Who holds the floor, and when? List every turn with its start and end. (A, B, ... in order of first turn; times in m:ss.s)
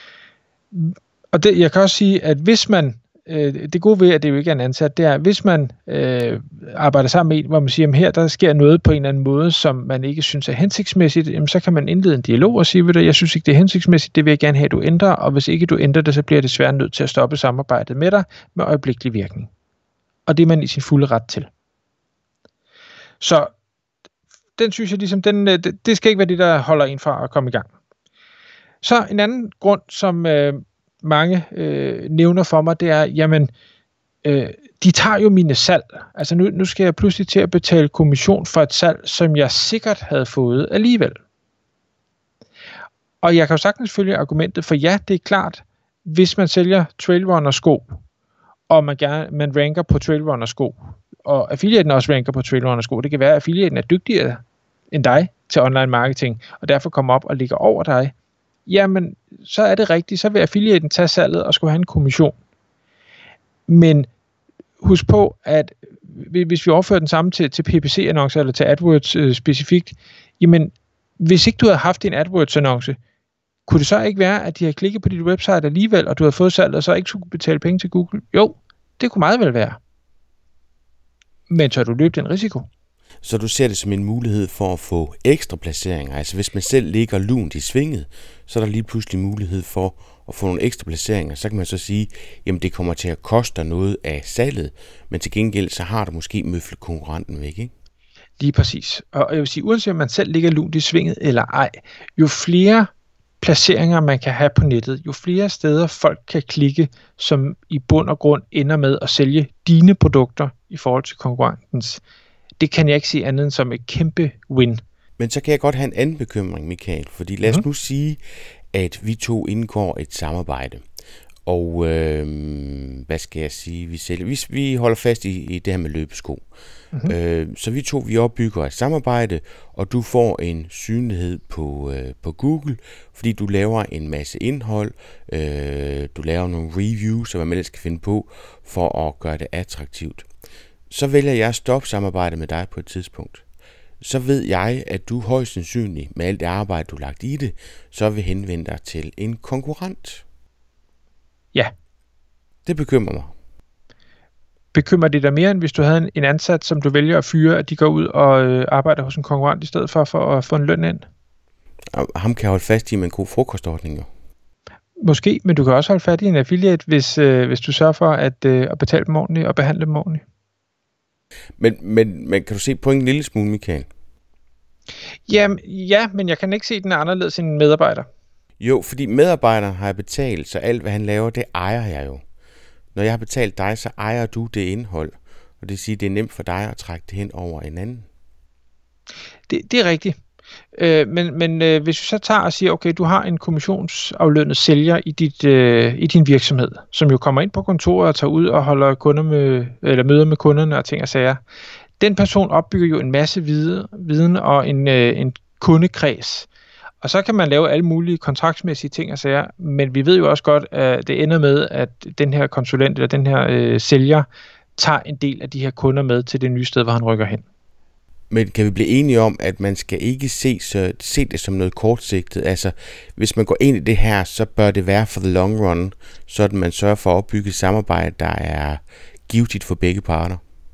0:00.7-0:19.5 A
0:20.3-0:21.5 A
0:23.2-0:23.5 A
0:24.6-0:27.7 A
0:28.8-0:33.5 A
0:34.2-0:41.2 A
0:43.2-0:48.0 A
0:48.7-0:58.1 A
0:58.7-1:02.4 A
1:03.7-1:04.1 A
1:04.8-1:13.0 A
1:13.7-1:19.8 A
1:21.5-1:22.7 A
1:23.2-1:37.7 B
1:38.4-1:42.9 A
1:43.4-1:52.0 A
1:52.6-1:54.8 A
1:55.2-1:58.2 B
1:58.7-2:00.8 B
2:01.5-2:06.4 B
2:07.1-2:20.3 B
2:20.9-2:23.4 B
2:24.0-2:30.2 B
2:32.7-2:33.3 B
2:34.7-2:41.1 A
2:41.9-2:44.1 B
2:45.0-2:50.2 A
2:51.6-2:53.9 B
2:55.3-2:58.1 A
2:58.6-3:02.2 B
3:02.9-3:08.1 B
3:09.5-3:10.2 A
3:10.7-3:21.4 A
3:22.0-3:26.5 A
3:27.0-3:34.3 A
3:34.8-3:37.4 A
3:38.3-3:50.4 B